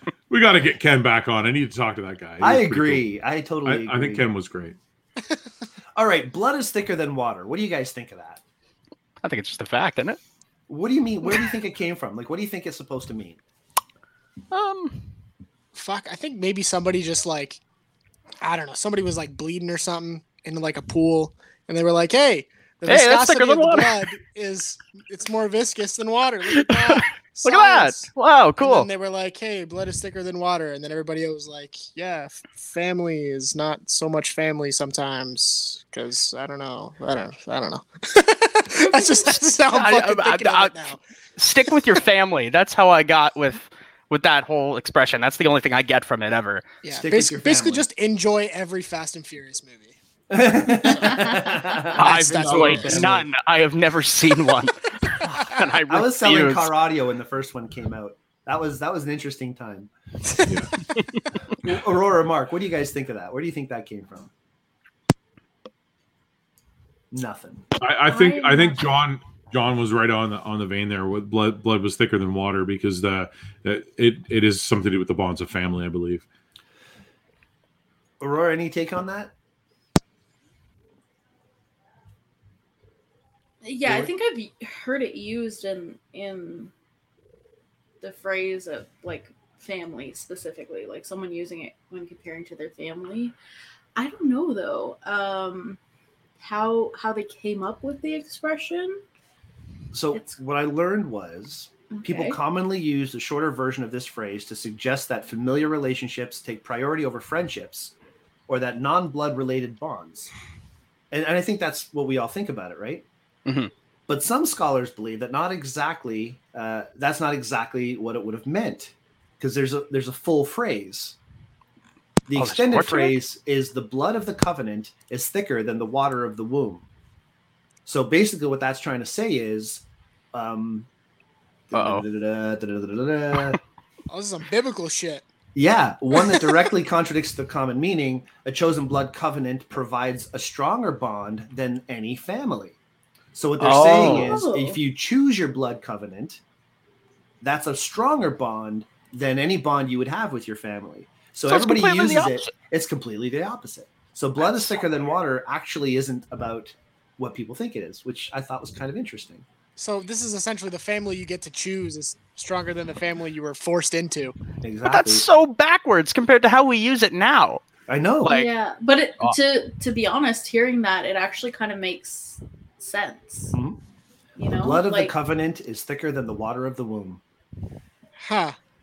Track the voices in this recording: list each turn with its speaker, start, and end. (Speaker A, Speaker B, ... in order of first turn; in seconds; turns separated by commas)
Speaker A: 0.3-3.0, Speaker B: 2.4-4.3, Speaker A: 3.6-4.8, Speaker B: 6.0-8.4, Speaker C: 9.2-10.2, Speaker B: 10.7-13.4, Speaker C: 14.5-15.1, Speaker D: 15.7-17.6, Speaker D: 18.4-41.0, Speaker C: 22.9-24.0, Speaker C: 26.5-28.9, Speaker C: 39.7-40.7, Speaker C: 41.4-46.6, Speaker D: 46.8-50.0, Speaker B: 46.9-47.9, Speaker B: 50.3-53.2, Speaker D: 52.0-53.1, Speaker C: 52.0-56.7, Speaker A: 52.5-53.1, Speaker B: 55.9-59.9, Speaker A: 60.5-60.7, Speaker B: 61.5-64.3, Speaker B: 67.1-67.7, Speaker A: 67.8-76.2, Speaker E: 68.1-69.0, Speaker B: 78.2-79.3, Speaker E: 83.6-86.7, Speaker E: 88.0-93.3, Speaker E: 94.0-95.8, Speaker E: 96.4-99.0, Speaker B: 99.9-107.9, Speaker E: 101.9-102.4, Speaker B: 108.5-110.3, Speaker B: 111.1-113.1, Speaker B: 114.1-121.2, Speaker B: 122.3-126.9, Speaker C: 122.3-123.2, Speaker B: 127.9-130.9, Speaker B: 131.7-133.6, Speaker C: 131.7-132.1, Speaker D: 134.1-135.2, Speaker B: 135.6-142.8, Speaker B: 143.3-146.4, Speaker C: 143.6-144.4, Speaker E: 143.9-144.8, Speaker B: 147.4-159.5, Speaker C: 151.5-152.5, Speaker D: 159.8-164.3, Speaker B: 164.6-165.3, Speaker C: 164.8-167.6, Speaker B: 167.9-168.4, Speaker C: 168.2-168.5, Speaker E: 168.3-173.6, Speaker B: 173.5-173.8, Speaker E: 174.4-175.1, Speaker B: 174.5-177.2, Speaker D: 178.2-178.6